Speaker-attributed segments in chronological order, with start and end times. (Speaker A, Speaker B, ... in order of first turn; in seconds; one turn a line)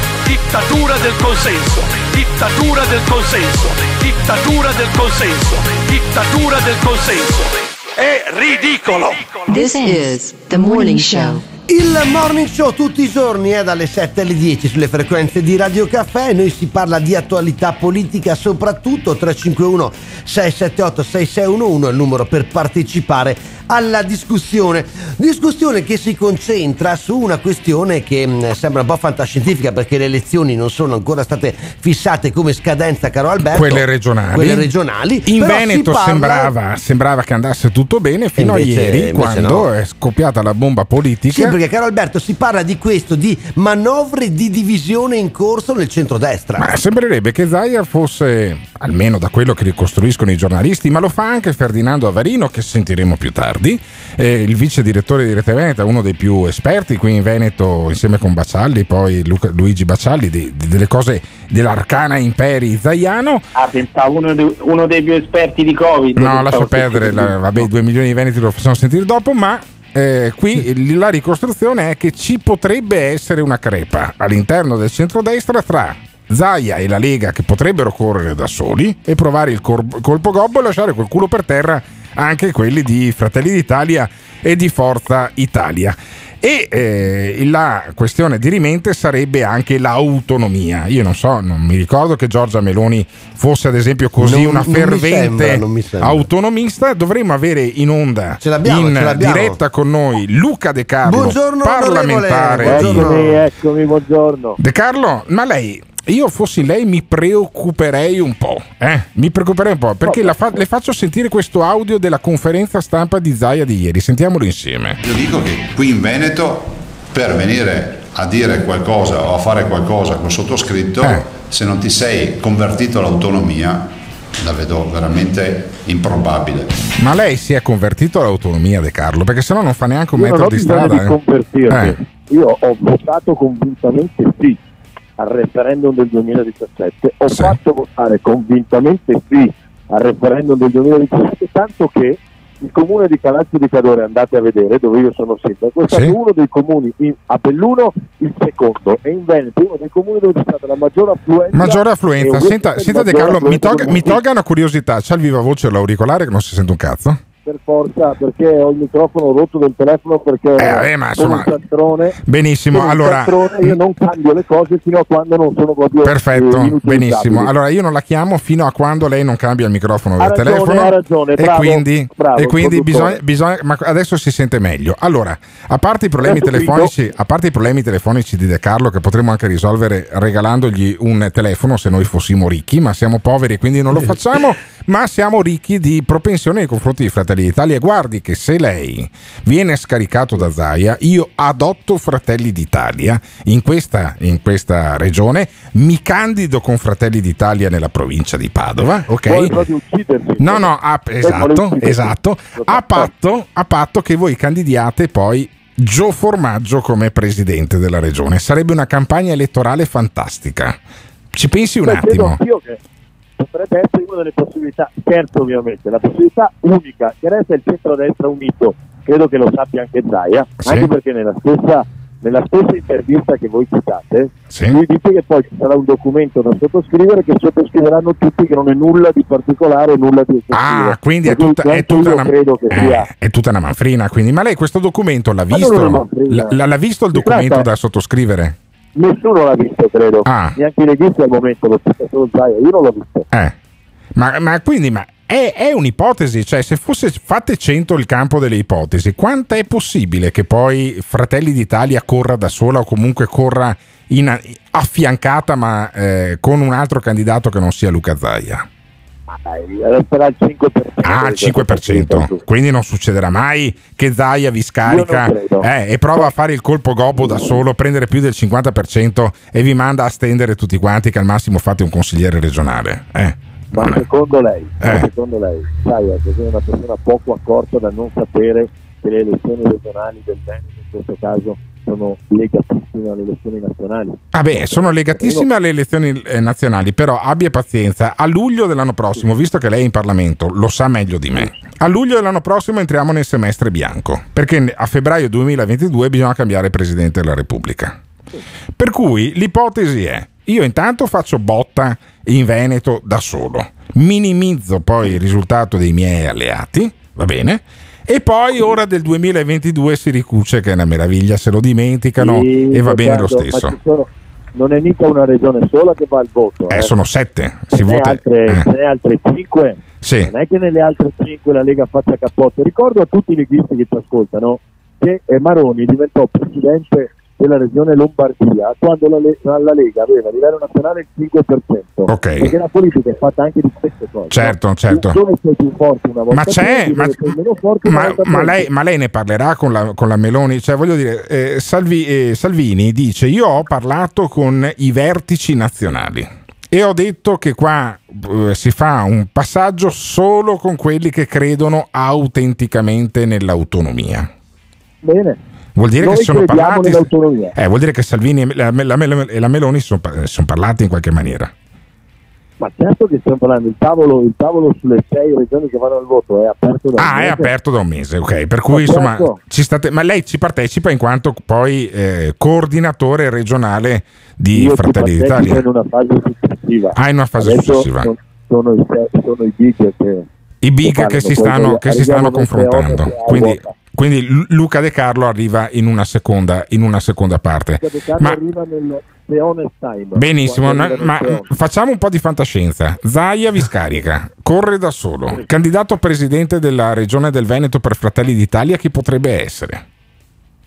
Speaker A: 0.2-9.4
Speaker B: 9.5-11.5
Speaker C: 11.7-36.5
Speaker D: 33.4-34.7
Speaker D: 35.2-41.6
Speaker C: 38.4-39.7
Speaker C: 41.3-46.7
Speaker D: 46.6-63.5
Speaker E: 63.5-67.3
Speaker D: 66.2-103.3
Speaker C: 94.2-96.2
Speaker C: 98.4-99.6
Speaker C: 101.0-103.4
Speaker F: 102.6-104.6
Speaker D: 104.6-115.0
Speaker F: 110.0-110.3
Speaker G: 115.0-126.7
Speaker D: 127.0-131.2
Speaker F: 130.2-134.6
Speaker D: 131.7-132.0
Speaker F: 135.2-154.2
Speaker D: 137.3-137.6
Speaker D: 145.9-146.2
Speaker D: 151.5-157.2
Speaker F: 157.5-162.2
Speaker D: 160.6-161.6
Speaker D: 162.2-163.8
Speaker F: 162.7-167.5
Speaker D: 166.0-199.6
Speaker F: 170.2-173.2
Speaker F: 176.2-176.9
Speaker F: 199.1-203.1
Speaker D: 200.4-210.8
Speaker D: 211.3-212.4
Speaker F: 211.8-212.8
Speaker F: 213.4-233.1
Speaker D: 220.6-220.9
Speaker D: 224.5-224.8
Speaker D: 230.5-238.6
Speaker F: 235.5-236.6
Speaker F: 237.1-237.7
Speaker F: 239.0-243.3
Speaker D: 240.2-240.6
Speaker D: 244.2-258.7
Speaker F: 259.3-262.4
Speaker D: 261.0-274.0
Speaker F: 264.9-266.3
Speaker F: 267.2-267.5
Speaker F: 273.7-284.2
Speaker D: 274.8-275.1
Speaker D: 284.3-298.0
Speaker F: 285.2-285.5
Speaker D: 298.8-313.8
Speaker F: 312.2-316.9
Speaker D: 316.7-318.7
Speaker F: 317.7-338.7
Speaker D: 320.0-320.3
Speaker D: 332.1-332.5
Speaker D: 334.3-335.2
Speaker D: 336.3-354.3
Speaker F: 355.0-355.4
Speaker D: 355.8-361.5
Speaker F: 356.0-357.5
Speaker F: 362.6-367.5
Speaker D: 367.0-375.6
Speaker F: 368.7-369.4
Speaker F: 374.5-380.3
Speaker D: 376.9-378.1
Speaker D: 380.6-388.4
Speaker F: 380.8-383.7
Speaker F: 387.8-391.5
Speaker D: 390.1-399.8